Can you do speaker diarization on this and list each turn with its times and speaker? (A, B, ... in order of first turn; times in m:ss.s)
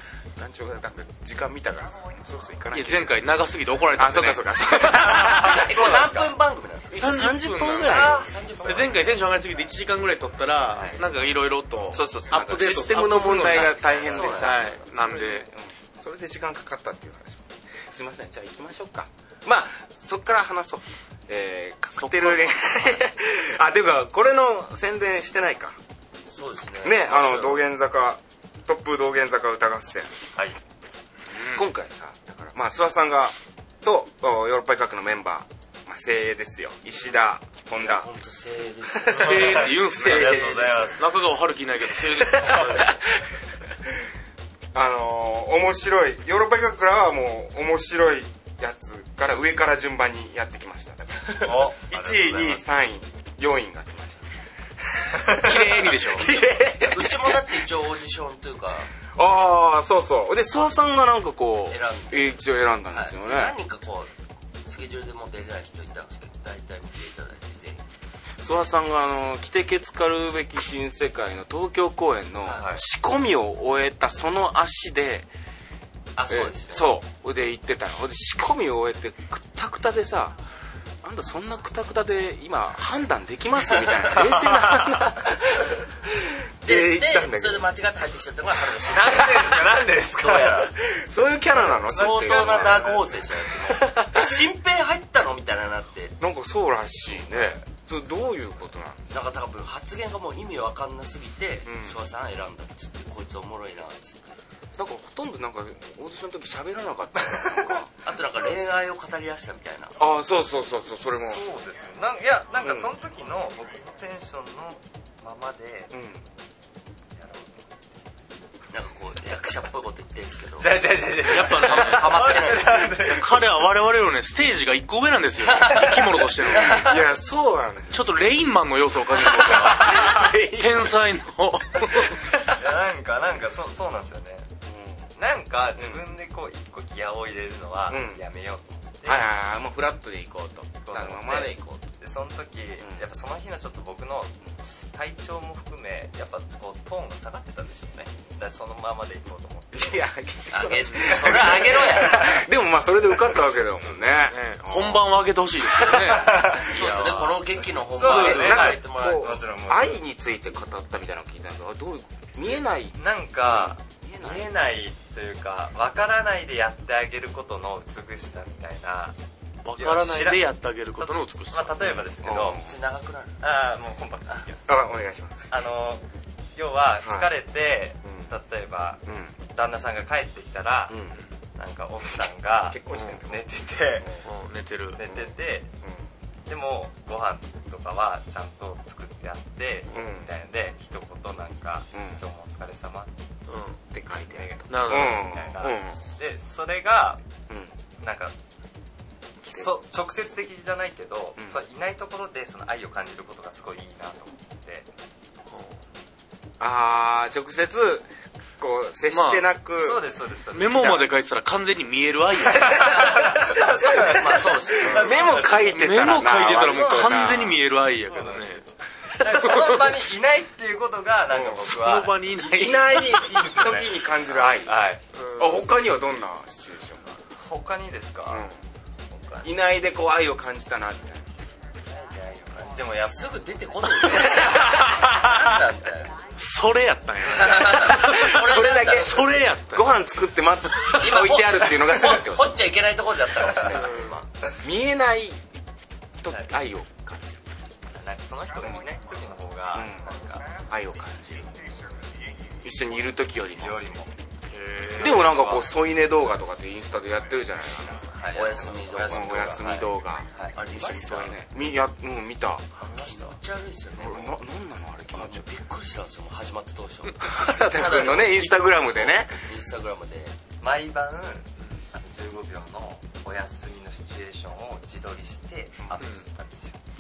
0:00.4-0:03.3 A
0:02.7-0:05.5 B
0:03.9-0:06.1 A
0:05.2-0:06.4 C
0:05.3-0:07.1 D
0:06.9-0:08.3 A
0:07.0-0:15.5 B
0:07.9-0:09.0 C
0:08.0-0:09.0 D
0:11.9-0:25.8 A
0:13.4-0:14.9 D
0:14.1-0:14.4 C
0:22.0-0:22.9 B
0:26.3-0:27.6 D
0:26.8-0:30.1 A
0:31.3-0:31.6 B
0:31.3-0:38.1 A
0:37.8-0:41.0 D
0:39.1-0:41.1 C
0:39.1-0:43.0 B
0:40.0-0:40.6 A
0:42.2-0:43.0 A
0:44.7-0:54.3 A
0:51.4-0:52.6 C
0:54.9-0:57.5 A
0:55.3-0:56.4 B
0:56.8-0:58.9 D
0:59.2-1:03.6 A
1:01.7-1:07.8 D
1:08.4-1:15.3 A
1:12.4-1:12.7 D
1:12.5-1:12.8 C
1:16.2-1:16.9 D
1:16.3-1:20.4 A
1:21.0-1:27.7 A
1:24.2-1:25.0 C
1:26.6-1:30.7 D
1:28.8-1:30.7 C
1:30.7-1:33.1 A
1:31.5-1:33.2 C
1:31.8-1:36.2 D
1:33.6-1:34.4 A
1:36.2-1:39.1 A
1:37.3-1:37.6 C
1:39.1-1:44.4 D
1:41.6-1:42.0 A
1:44.8-1:47.9 A
1:47.2-1:47.7 C
1:48.0-1:50.0 D
1:50.0-1:51.4 A
1:51.0-1:55.9 C
1:52.6-1:52.9 A
1:55.9-1:56.2 A
1:57.2-1:57.8 C
1:58.7-2:03.0 D
2:00.6-2:03.5 C
2:01.3-2:02.5 B
2:03.0-2:07.0 B
2:05.4-2:07.0 D
2:06.6-2:08.2 A
2:07.9-2:12.3 B
2:09.2-2:11.0 A
2:12.0-2:12.5 A
2:12.5-2:14.5 C
2:14.7-2:15.0 A
2:15.2-2:19.3 C
2:15.8-2:16.0 A
2:17.9-2:18.2 A
2:19.0-2:21.9 A
2:20.8-2:30.0 C
2:29.7-2:35.1 A
2:30.5-2:32.4 D
2:31.3-2:32.3 C
2:34.3-2:36.6 B
2:35.6-2:36.6 A
2:35.8-2:40.0 C
2:36.6-2:39.4 D
2:38.0-2:38.8 B
2:38.1-2:44.5 A
2:43.0-2:49.2 C
2:49.6-2:51.9 B
2:49.8-2:50.5 C
2:51.0-2:52.6 C
2:51.8-2:52.7 A
2:52.6-2:53.4 D
2:53.4-2:54.8 C
2:54.7-2:55.5 A
2:55.5-2:56.0 C
2:56.6-3:01.0 C
2:57.0-2:57.3 A
2:58.0-2:58.3 A
2:59.1-2:59.4 A
3:00.9-3:01.2 A
3:01.6-3:04.1 C
3:02.7-3:04.3 A
3:02.9-3:03.2 B
3:04.2-3:05.1 B
3:05.0-3:05.7 C
3:05.1-3:06.0 A
3:06.5-3:13.1 C
3:09.9-3:10.3 A
3:11.9-3:12.2 A
3:13.5-3:13.8 B
3:13.9-3:16.0 A
3:14.3-3:17.2 C
3:14.7-3:15.4 B
3:17.5-3:17.7 A
3:18.0-3:18.4 C
3:19.5-3:24.9 C
3:25.5-3:25.8 B
3:26.6-3:28.1 A
3:28.6-3:30.1 A
3:29.1-3:29.5 B
3:29.8-3:31.1 C
3:30.5-3:33.2 B
3:32.5-3:35.8 C
3:34.0-3:35.3 D
3:34.9-3:37.6 A
3:35.6-3:38.6 B
3:36.4-3:45.0 C
3:39.4-3:39.8 B
3:41.3-3:41.6 A
3:41.6-3:43.1 B
3:42.5-3:44.8 A
3:45.2-3:45.6 B
3:45.4-3:47.2 A
3:47.4-3:48.4 C
3:48.3-3:48.6 A
3:49.1-3:49.5 C
3:49.4-3:51.2 A
3:51.9-3:56.2 D
3:52.6-3:53.3 C
3:54.4-3:55.0 B
3:56.4-4:00.0 B
3:57.3-3:59.2 D
3:57.8-4:02.6 A
4:00.9-4:04.3 D
4:03.8-4:04.1 B
4:04.6-4:05.5 A
4:06.2-4:07.5 A
4:07.9-4:10.6 C
4:09.7-4:11.9 A
4:12.6-4:13.8 A
4:13.6-4:14.1 C
4:14.5-4:15.4 B
4:15.0-4:18.1 A
4:15.0-4:15.7 C
4:18.1-4:19.7 C
4:18.3-4:20.0 D
4:19.0-4:22.7 A
4:20.5-4:21.4 D
4:22.8-4:23.4 C
4:23.0-4:24.3 D
4:24.0-4:25.5 A
4:25.1-4:30.4 D
4:27.2-4:29.4 A
4:30.6-4:36.8 C
4:36.0-4:36.2 B